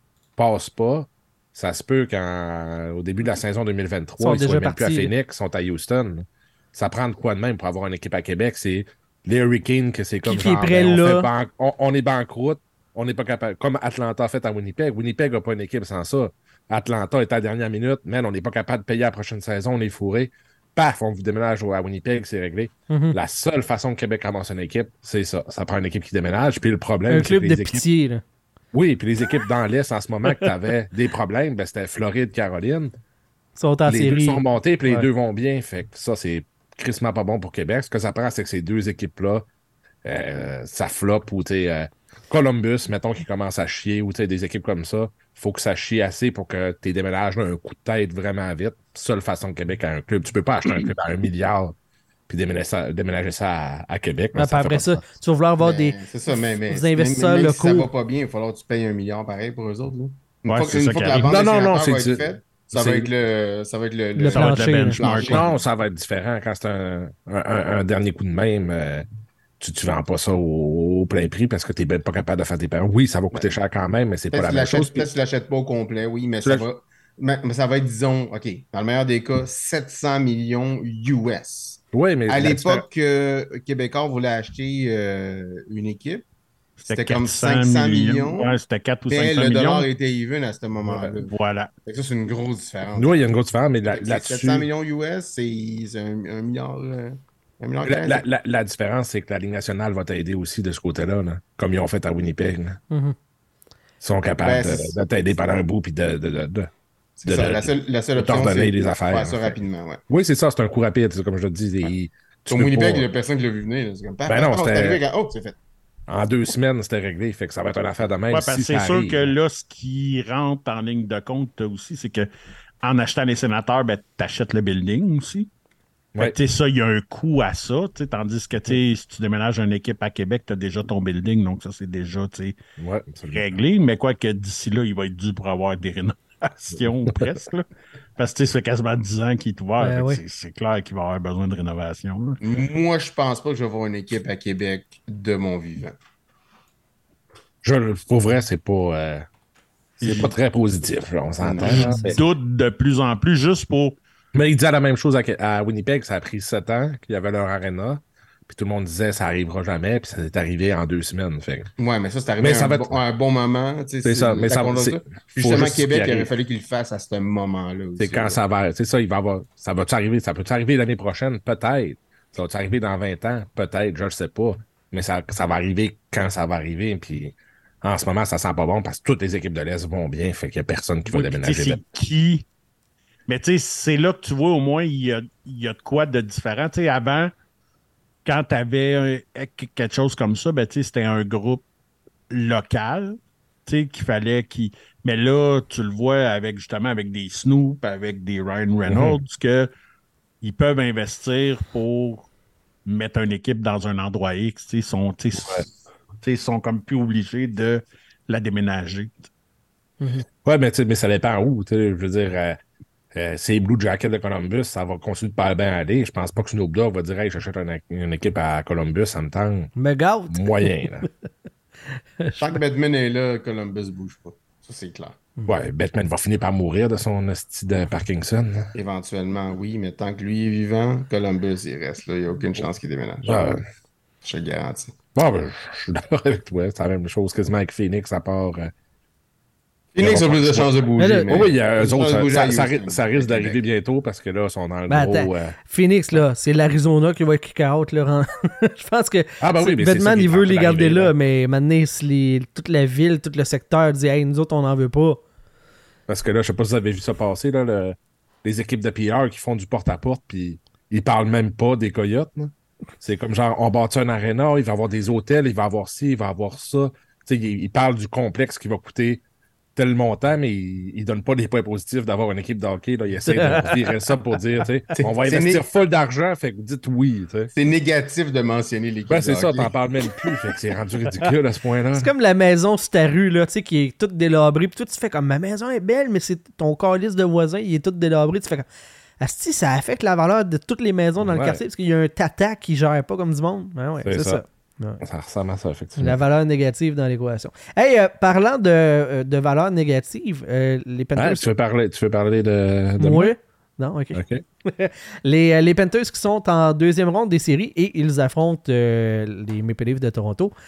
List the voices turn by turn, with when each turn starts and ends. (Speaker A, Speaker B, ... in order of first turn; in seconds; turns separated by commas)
Speaker A: 0.4-27.8, Speaker B: 4.2-5.1, Speaker B: 10.2-11.3, Speaker B: 22.9-23.2, Speaker B: 27.1-28.2, Speaker A: 28.7-32.9, Speaker B: 33.6-35.1, Speaker A: 33.9-39.5, Speaker A: 40.0-51.8, Speaker A: 52.3-55.0, Speaker B: 54.4-56.0, Speaker C: 55.6-65.6, Speaker B: 56.7-57.9, Speaker D: 60.5-61.3, Speaker A: 61.1-63.1, Speaker B: 64.2-65.0, Speaker D: 64.3-65.4, Speaker A: 65.2-69.1, Speaker A: 69.6-75.1, Speaker C: 74.3-86.3, Speaker A: 81.9-82.8, Speaker D: 86.8-89.9, Speaker C: 86.9-88.6, Speaker C: 89.1-91.3, Speaker D: 91.2-91.7, Speaker C: 91.9-93.2, Speaker A: 93.0-94.7, Speaker C: 93.9-98.2, Speaker A: 97.8-102.8, Speaker A: 104.0-106.7, Speaker C: 104.4-105.0, Speaker C: 107.2-110.0, Speaker A: 107.3-109.6, Speaker A: 110.1-113.1, Speaker C: 112.5-115.6, Speaker A: 114.3-115.0, Speaker A: 116.1-119.3, Speaker D: 118.3-122.3, Speaker D: 122.8-125.5, Speaker D: 126.2-132.6, Speaker A: 132.8-133.5, Speaker D: 133.3-137.7, Speaker D: 138.2-142.4, Speaker B: 139.8-140.2, Speaker C: 142.4-146.0, Speaker A: 147.6-149.3, Speaker D: 150.0-150.3, Speaker C: 150.0-150.3, Speaker A: 150.1-152.2, Speaker C: 151.4-152.2, Speaker D: 151.7-154.0, Speaker A: 154.3-161.7, Speaker C: 161.8-168.4, Speaker A: 162.4-162.9, Speaker A: 164.1-166.3, Speaker A: 168.0-181.8, Speaker D: 181.1-182.4, Speaker D: 183.3-187.3, Speaker D: 188.2-191.6, Speaker D: 192.3-199.7, Speaker A: 198.9-199.2, Speaker D: 200.4-202.3, Speaker D: 202.9-205.7, Speaker A: 205.4-205.7, Speaker D: 206.2-209.3, Speaker B: 210.0-210.3, Speaker A: 210.4-212.6, Speaker A: 213.1-219.7, Speaker B: 219.8-221.1, Speaker A: 220.3-221.1, Speaker B: 222.2-222.6, Speaker C: 222.4-225.2, Speaker A: 225.5-228.7, Speaker C: 228.7-233.6, Speaker A: 233.2-233.6, Speaker C: 234.2-235.0, Speaker A: 235.2-238.7, Speaker C: 239.9-243.6, Speaker A: 240.0-240.7, Speaker B: 241.0-241.4, Speaker A: 241.3-245.6, Speaker B: 244.9-255.2, Speaker A: 249.4-251.1, Speaker A: 256.1-269.2, Speaker A: 269.8-277.5, Speaker B: 273.3-273.9, Speaker C: 274.9-275.6, Speaker C: 277.5-279.7, Speaker A: 279.1-282.1, Speaker B: 281.9-288.7, Speaker B: 289.2-295.0, Speaker A: 291.2-291.6, Speaker A: 294.0-294.4, Speaker A: 295.0-296.2, Speaker B: 296.0-301.5, Speaker A: 301.2-303.3, Speaker B: 303.0-310.5, Speaker A: 304.1-304.4